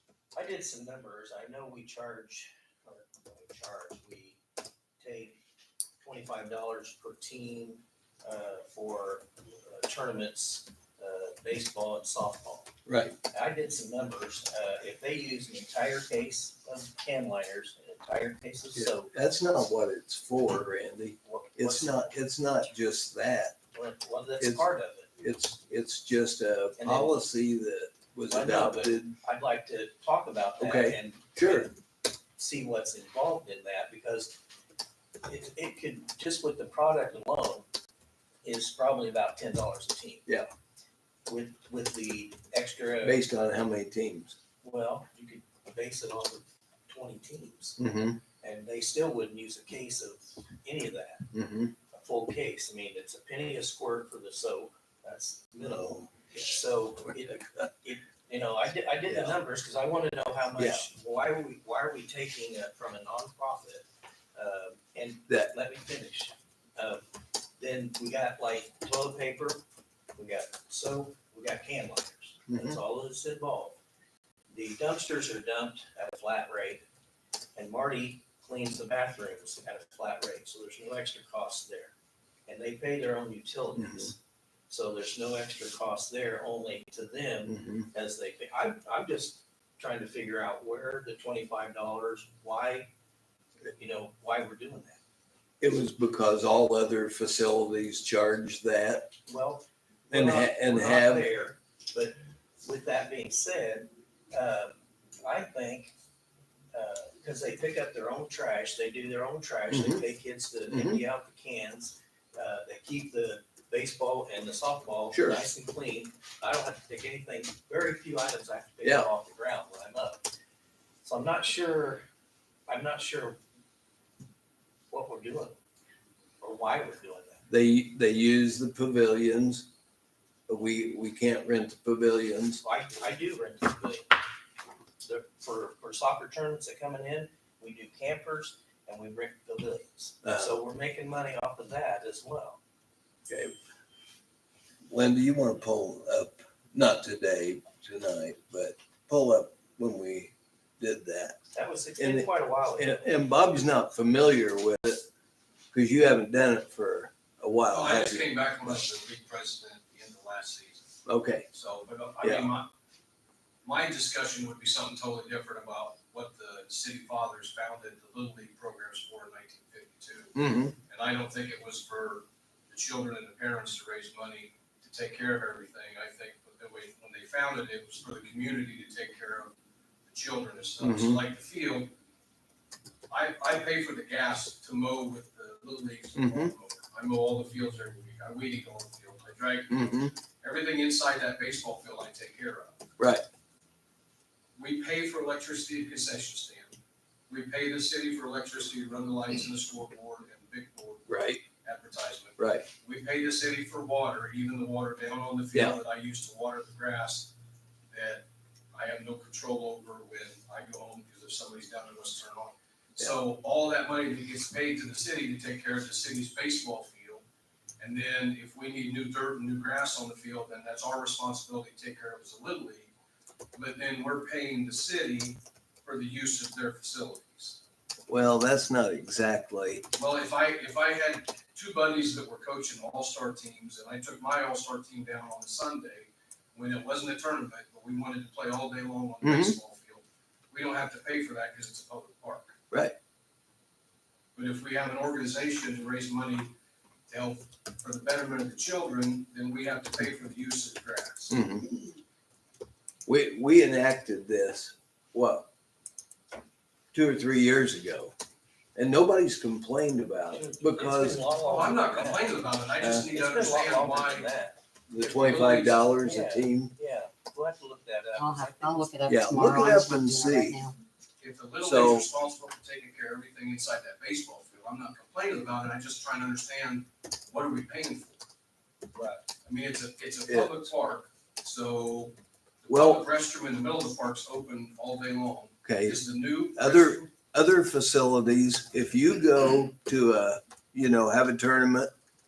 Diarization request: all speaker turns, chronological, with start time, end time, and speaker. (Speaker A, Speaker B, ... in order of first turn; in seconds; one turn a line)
Speaker A: 0.3-4.4
Speaker A: 5.0-5.4
Speaker A: 6.0-12.7
Speaker B: 12.8-13.2
Speaker A: 13.3-19.1
Speaker B: 18.7-23.6
Speaker A: 21.2-22.1
Speaker A: 23.7-25.1
Speaker B: 24.4-24.6
Speaker B: 25.2-29.2
Speaker A: 26.8-27.2
Speaker A: 28.3-31.8
Speaker B: 30.6-31.7
Speaker A: 32.4-34.4
Speaker A: 35.2-37.7
Speaker A: 38.4-40.2
Speaker A: 41.3-43.2
Speaker B: 43.0-44.3
Speaker A: 44.6-47.8
Speaker B: 47.8-48.2
Speaker A: 48.4-51.3
Speaker B: 51.3-51.7
Speaker A: 51.9-67.0
Speaker B: 55.6-56.3
Speaker B: 59.1-59.4
Speaker B: 60.6-60.8
Speaker A: 67.6-69.6
Speaker A: 70.2-73.8
Speaker B: 72.5-72.8
Speaker A: 74.5-76.8
Speaker A: 77.5-81.9
Speaker A: 82.5-84.2
Speaker B: 83.8-84.1
Speaker A: 84.7-92.9
Speaker B: 87.5-87.9
Speaker A: 93.7-95.0
Speaker B: 95.6-99.1
Speaker A: 99.3-105.9
Speaker B: 100.1-101.3
Speaker A: 106.7-120.2
Speaker B: 109.7-110.0
Speaker B: 110.7-111.0
Speaker B: 115.1-115.4
Speaker B: 118.8-119.1
Speaker A: 121.0-122.0
Speaker A: 122.7-123.4
Speaker A: 124.9-125.6
Speaker A: 126.4-127.4
Speaker B: 127.5-129.7
Speaker B: 130.5-132.6
Speaker A: 132.6-134.2
Speaker A: 135.0-142.6
Speaker B: 140.2-140.5
Speaker B: 143.3-143.5
Speaker B: 144.9-151.4
Speaker A: 151.5-153.1
Speaker B: 152.0-155.0
Speaker B: 155.7-158.8
Speaker C: 157.7-160.9
Speaker B: 161.1-161.4
Speaker C: 161.5-162.7
Speaker B: 162.2-162.5
Speaker C: 163.6-179.5
Speaker B: 170.3-170.8
Speaker C: 180.1-181.9
Speaker B: 180.8-181.2
Speaker C: 183.1-192.8
Speaker B: 186.2-186.5
Speaker B: 189.7-190.1
Speaker B: 193.0-193.2
Speaker C: 194.6-196.8
Speaker C: 197.3-207.3
Speaker B: 201.1-201.4
Speaker B: 202.4-202.7
Speaker B: 205.5-205.8
Speaker C: 207.9-217.2
Speaker C: 217.8-222.9
Speaker C: 223.5-227.6
Speaker B: 228.1-229.8
Speaker C: 229.9-242.5
Speaker B: 239.2-239.6
Speaker C: 244.3-246.5
Speaker C: 247.1-251.3
Speaker B: 251.3-251.9
Speaker B: 253.1-255.5
Speaker B: 256.9-258.1
Speaker B: 258.8-261.3
Speaker A: 260.3-262.4
Speaker C: 261.4-264.3
Speaker B: 262.8-263.1
Speaker A: 263.1-264.6
Speaker B: 264.9-266.7
Speaker C: 265.0-265.8
Speaker A: 265.9-268.9
Speaker D: 268.1-270.7
Speaker B: 269.1-270.6
Speaker C: 271.2-278.2
Speaker B: 271.6-272.1
Speaker C: 279.2-287.1
Speaker B: 280.3-280.6
Speaker B: 282.7-283.0
Speaker B: 285.6-291.9